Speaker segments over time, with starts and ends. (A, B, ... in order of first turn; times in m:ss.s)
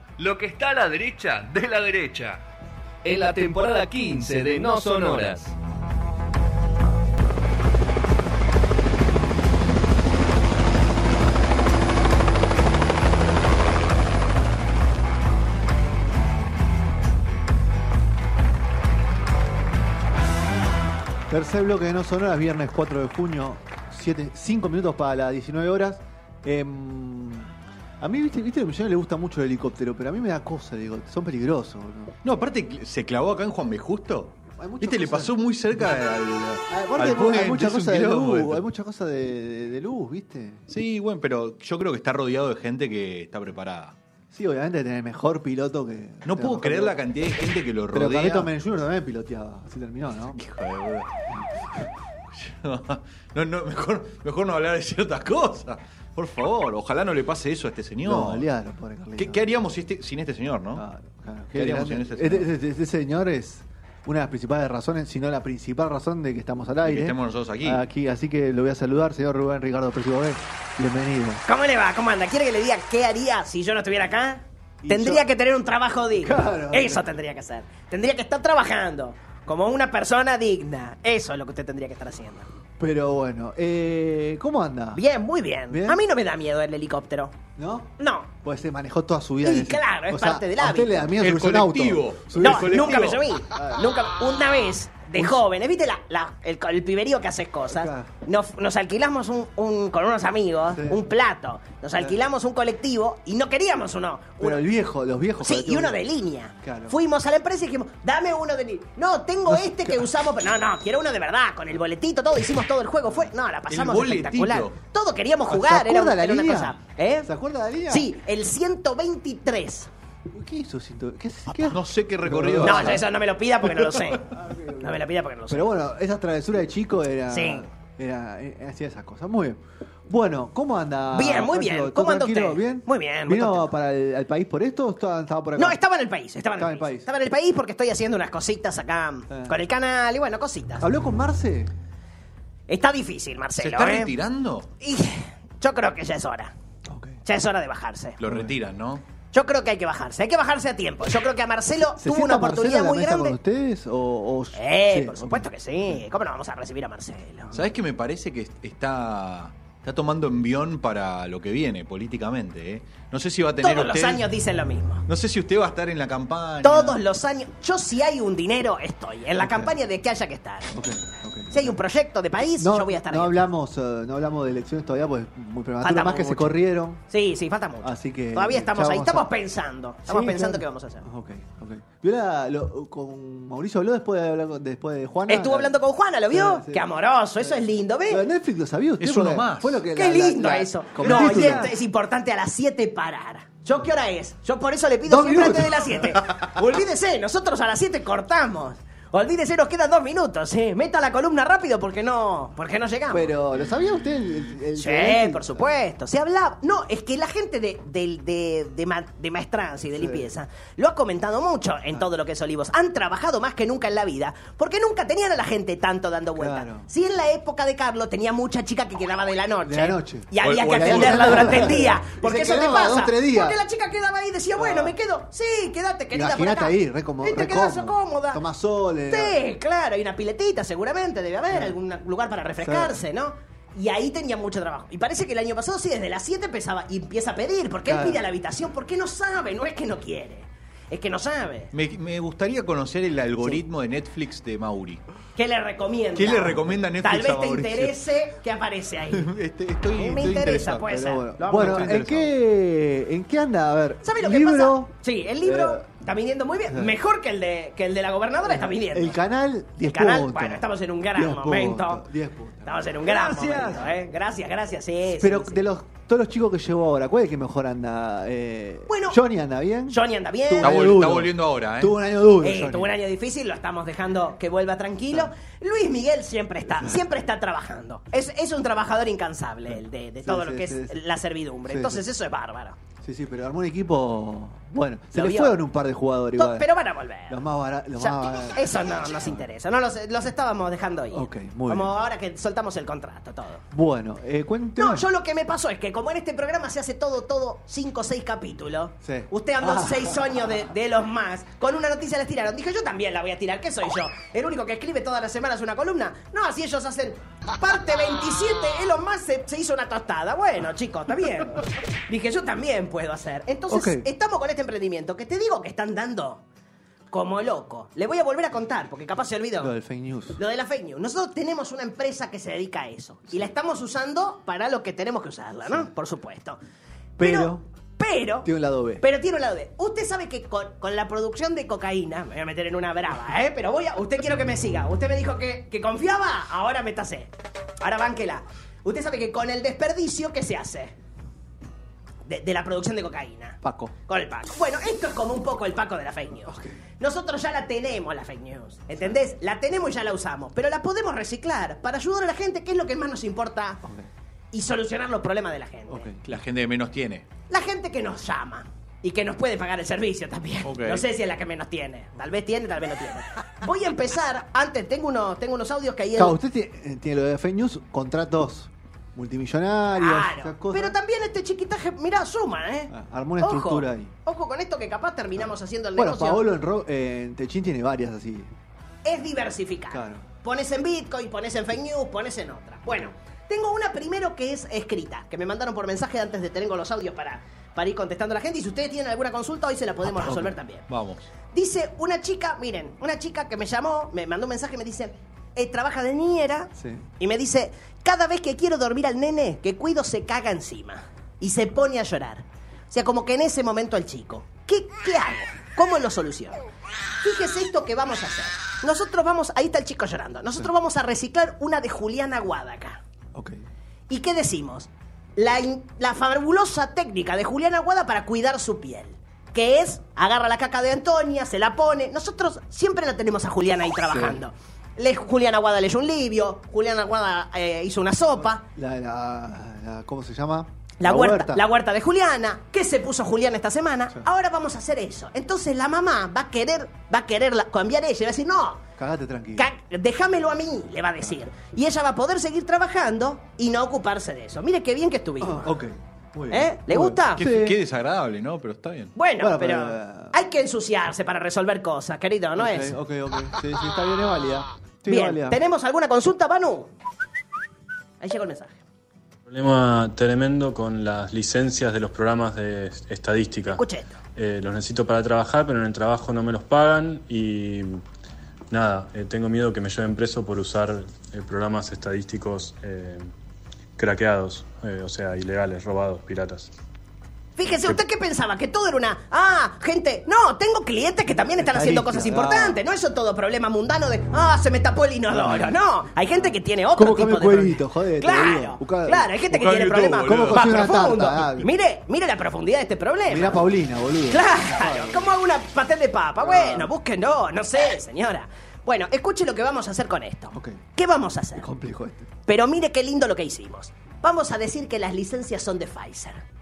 0:00.2-0:02.4 A
0:03.0-0:05.5 A
0:21.3-0:32.2 B
0:32.2-0:38.6 C
0:34.6-0:35.4 B
0:36.7-0:40.6 B
0:40.7-0:43.9 C
0:44.3-0:47.0 B
0:46.2-0:48.5 C
0:47.9-0:50.4 B
0:50.3-0:51.1 C
0:51.8-0:58.5 C
0:58.0-0:59.4 B
0:59.2-1:00.8 C
1:00.7-1:11.4 B
1:01.5-1:02.5 C
1:06.8-1:07.8 C
1:11.4-1:22.5 D
1:14.8-1:15.2 B
1:16.1-1:17.1 B
1:22.8-1:25.0 B
1:24.9-1:27.3 D
1:25.7-1:26.0 B
1:27.6-1:27.9 B
1:28.0-1:28.3 D
1:28.4-1:32.9 B
1:29.4-1:31.1 D
1:31.1-1:33.2 C
1:32.4-1:44.6 D
1:33.5-1:33.9 B
1:35.1-1:35.4 B
1:37.7-1:38.1 B
1:40.7-1:41.0 B
1:44.4-1:46.0 B
1:45.4-1:57.3 D
1:46.6-1:47.0 B
1:49.5-1:50.0 B
1:53.1-1:53.3 B
1:53.7-1:54.8 C
1:55.5-1:58.1 B
1:57.9-1:59.9 D
2:00.3-2:03.0 B
2:01.6-2:03.1 C
2:02.6-2:05.7 D
2:04.3-2:15.8 B
2:07.3-2:07.7 D
2:11.1-2:13.7 D
2:15.6-2:20.9 D
2:16.5-2:17.1 B
2:19.3-2:19.6 B
2:20.8-2:21.7 B
2:22.7-2:24.1 D
2:23.6-2:24.7 C
2:24.8-2:26.5 D
2:26.9-2:27.2 B
2:27.2-2:28.2 D
2:28.2-2:29.0 C
2:28.2-2:28.5 B
2:29.3-2:33.4 D
2:32.0-2:36.0 B
2:34.5-2:37.6 D
2:37.5-2:44.2 C
2:43.6-2:45.0 D
2:45.1-2:47.0 C
2:46.6-2:50.8 D
2:49.4-2:49.7 B
2:50.7-2:51.8 B
2:51.5-2:53.4 D
2:52.6-2:57.0 B
2:55.8-3:01.0 D
2:57.8-2:59.3 B
3:00.0-3:11.7 B
3:05.3-3:08.2 D
3:09.0-3:09.8 C
3:09.9-3:23.3 D
3:11.0-3:11.6 C
3:15.0-3:16.0 B
3:23.1-3:25.7 B
3:24.7-3:48.4 D
3:29.9-3:30.3 B
3:36.4-3:36.9 B
3:39.6-3:43.6 B
3:40.4-3:41.8 C
3:44.6-3:45.0 B
3:46.1-3:49.4 B
3:49.1-4:01.7 D
3:51.5-3:51.8 B
3:52.6-3:53.0 B
3:57.8-3:58.2 B
4:01.7-4:05.0 C
4:05.4-4:09.3 D
4:06.1-4:08.0 C
4:09.1-4:10.9 C
4:10.0-4:12.0 D
4:10.7-4:15.8 B
4:11.5-4:12.3 C
4:14.0-4:19.2 D
4:16.7-4:17.0 B
4:18.4-4:20.6 B
4:19.8-4:22.0 D
4:21.1-4:23.9 B
4:22.6-4:25.6 D
4:25.0-4:32.9 B
4:28.9-4:29.2 D
4:29.9-4:30.8 D
4:30.6-4:31.9 C
4:32.4-4:42.8 D
4:40.2-4:41.0 B
4:41.7-4:42.0 B
4:43.0-4:46.7 B
4:45.1-4:45.6 D
4:46.4-4:47.4 D
4:47.3-4:49.4 B
4:48.0-4:53.6 D
4:51.1-4:51.9 B
4:53.7-4:55.1 B
4:54.8-5:16.4 D
4:59.0-5:00.5 B
5:13.7-5:14.1 B
5:17.1-5:19.7 D
5:19.6-5:20.4 B
5:20.4-5:26.6 D
5:27.2-5:27.6 B
5:27.2-5:40.9 D
5:28.4-5:29.0 B
5:42.2-5:53.8 D
5:43.6-5:43.9 B
5:46.4-5:46.8 B
5:54.5-5:56.1 D
5:55.9-5:56.3 B
5:56.2-5:57.2 C
5:57.5-6:06.3 D
6:00.6-6:01.0 C
6:06.2-6:11.0 B
6:09.9-6:16.5 D
6:12.9-6:14.1 B
6:15.4-6:18.5 B
6:19.0-6:30.9 D
6:19.9-6:20.2 B
6:30.0-6:30.5 B
6:30.9-6:31.3 C
6:31.5-6:46.6 D
6:36.8-6:37.0 B
6:47.2-6:53.0 D
6:53.3-6:53.6 B
6:54.1-7:08.6 D
7:04.1-7:04.4 B
7:08.4-7:11.6 B
7:11.0-7:18.8 D
7:19.0-7:19.7 B
7:19.6-7:25.7 D
7:25.4-7:27.8 B
7:26.5-7:27.4 D
7:27.4-7:29.1 C
7:29.2-7:33.0 D
7:29.4-7:30.4 B
7:32.6-7:35.6 B
7:35.1-7:36.9 D
7:38.2-7:38.8 D
7:39.5-7:43.8 E
7:43.7-7:44.2 D
7:44.4-7:48.0 E
7:48.7-7:53.2 E
7:54.0-7:56.7 E
7:57.6-8:13.6 D
8:01.4-8:02.8 B
8:05.3-8:05.8 B
8:06.3-8:09.3 B
8:09.5-8:10.7 C
8:10.2-8:11.7 B
8:13.3-8:15.3 B
8:14.3-8:21.6 D
8:16.4-8:16.9 B
8:20.5-8:20.8 B
8:21.6-8:22.3 B
8:22.4-8:26.4 D